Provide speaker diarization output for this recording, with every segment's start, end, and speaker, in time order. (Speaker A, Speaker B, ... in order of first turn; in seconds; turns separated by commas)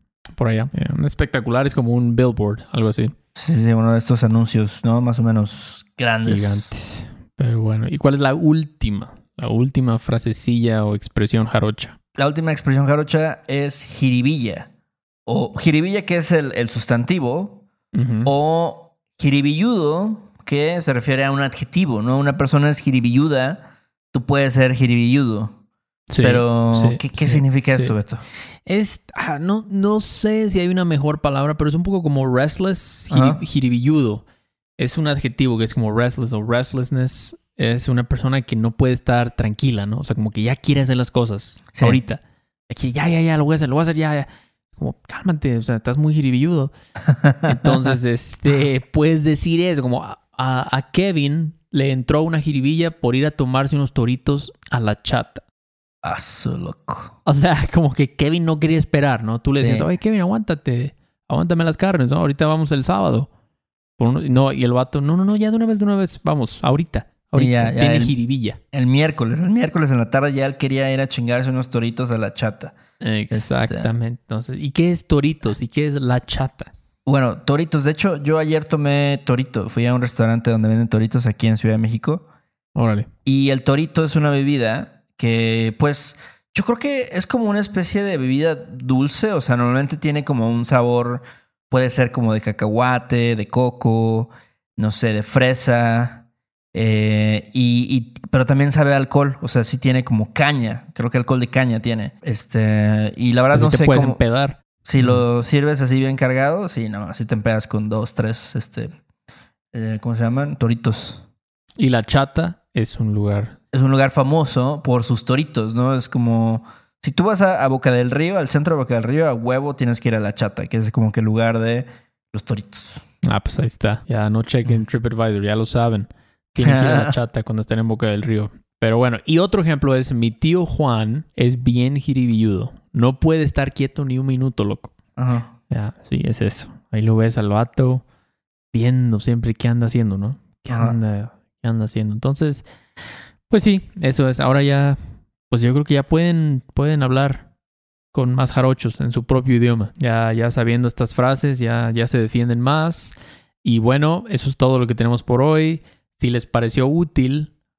Speaker A: 0.3-3.1, Speaker B: 3.4-6.7, Speaker A: 6.2-12.0, Speaker B: 12.2-14.7, Speaker B: 15.3-17.6, Speaker A: 17.9-18.3, Speaker B: 18.2-23.6, Speaker B: 24.1-25.5, Speaker A: 26.1-27.9, Speaker B: 26.2-28.2, Speaker A: 28.6-34.2, Speaker B: 33.1-33.4, Speaker A: 34.8-46.7, Speaker B: 41.8-42.0, Speaker A: 47.4-55.4, Speaker B: 56.0-57.1, Speaker A: 57.2-63.3, Speaker B: 59.6-59.9, Speaker A: 64.0-68.6, Speaker B: 67.3-68.1, Speaker B: 68.7-72.7, Speaker A: 73.0-76.7, Speaker B: 73.3-73.8, Speaker B: 77.0-82.2, Speaker A: 82.7-83.1, Speaker B: 83.2-96.2, Speaker B: 96.7-104.2, Speaker A: 103.5-105.2, Speaker B: 104.8-108.9, Speaker B: 109.7-111.2, Speaker A: 111.8-113.6, Speaker B: 113.7-123.0, Speaker A: 123.2-134.9, Speaker B: 126.6-127.1, Speaker B: 135.2-135.5, Speaker A: 135.7-138.0, Speaker A: 138.7-142.7, Speaker B: 140.7-140.9, Speaker A: 143.5-145.0, Speaker A: 145.5-147.5, Speaker A: 148.1-157.5